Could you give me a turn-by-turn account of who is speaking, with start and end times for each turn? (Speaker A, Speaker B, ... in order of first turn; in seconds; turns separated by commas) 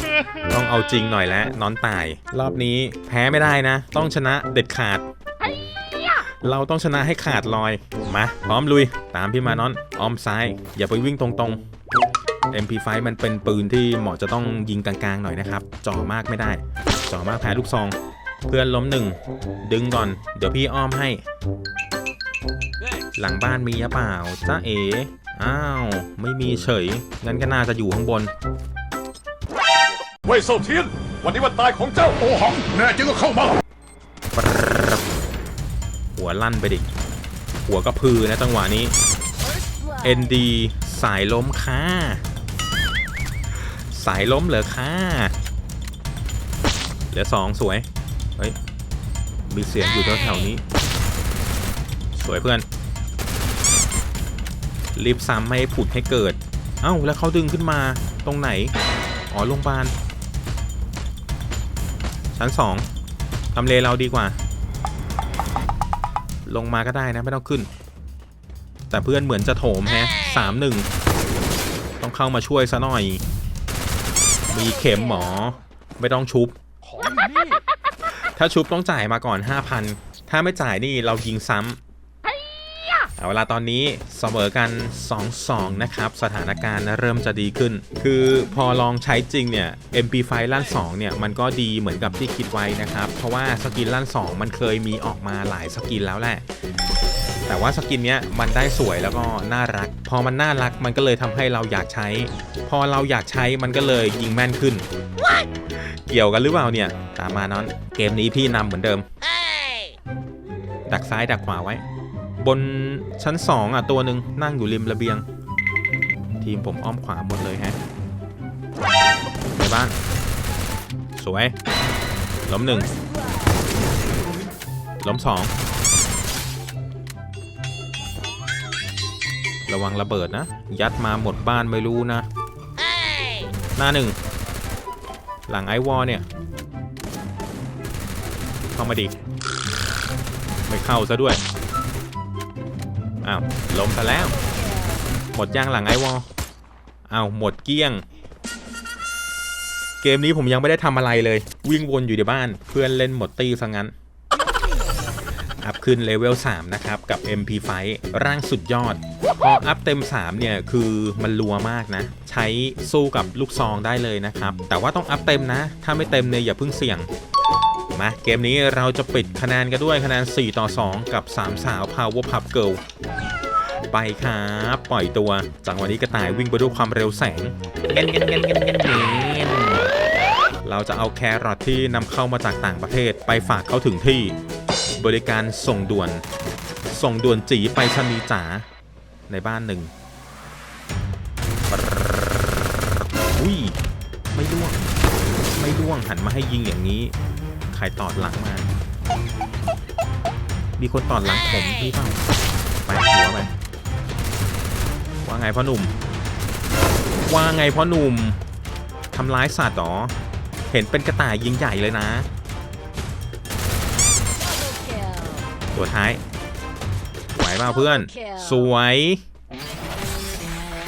Speaker A: 0.5-5.1, Speaker A: 6.1-11.6, Speaker A: 12.5-18.0, Speaker A: 18.5-21.2, Speaker A: 23.2-28.3, Speaker B: 30.2-33.6, Speaker A: 34.4-35.0, Speaker A: 36.2-36.9, Speaker A: 37.7-39.0, Speaker C: 39.4-40.3, Speaker A: 40.0-42.2, Speaker A: 43.9-45.3, Speaker A: 47.1-47.9, Speaker A: 49.5-50.6, Speaker A: 52.1-52.6, Speaker A: 55.0-58.8, Speaker A: 59.3-59.9, Speaker A: 62.3-62.9, Speaker A: 63.5-64.4, Speaker A: 66.5-67.7, Speaker A: 68.9-70.9, Speaker A: 72.0-73.2, Speaker A: 74.5-76.5, Speaker C: 74.9-75.5, Speaker B: 76.9-77.6, Speaker A: 78.1-81.8, Speaker A: 83.2-96.4, Speaker A: 97.5-104.9, Speaker A: 105.8-109.0, Speaker A: 110.9-111.8, Speaker A: 112.4-115.2, Speaker A: 116.4-117.8, Speaker A: 119.5-120.0, Speaker A: 121.2-121.5, Speaker A: 122.5-123.0, Speaker C: 123.0-123.5, Speaker A: 125.0-125.5, Speaker A: 129.7-132.3, Speaker A: 133.8-134.2, Speaker A: 135.5-136.3, Speaker A: 138.7-139.2, Speaker A: 140.7-141.4, Speaker A: 143.2-144.4, Speaker C: 144.4-145.1, Speaker A: 145.3-146.3, Speaker A: 147.1-148.1, Speaker A: 150.0-153.9, Speaker A: 155.6-167.1, Speaker A: 167.9-172.8, Speaker A: 173.9-179.9, Speaker A: 180.6-184.4, Speaker A: 185.0-186.2, Speaker A: 186.9-188.7, Speaker A: 189.3-189.9, Speaker A: 191.7-192.5, Speaker A: 193.3-193.8, Speaker A: 194.3-194.8, Speaker A: 195.6-197.1, Speaker A: 197.7-198.7, Speaker A: 200.8-202.2, Speaker A: 202.9-203.5, Speaker A: 205.2-205.9, Speaker A: 207.2-208.4, Speaker A: 209.1-210.2, Speaker A: 210.7-212.3, Speaker C: 214.3-215.5, Speaker A: 215.7-216.2, Speaker A: 217.3-219.2, Speaker C: 217.9-218.6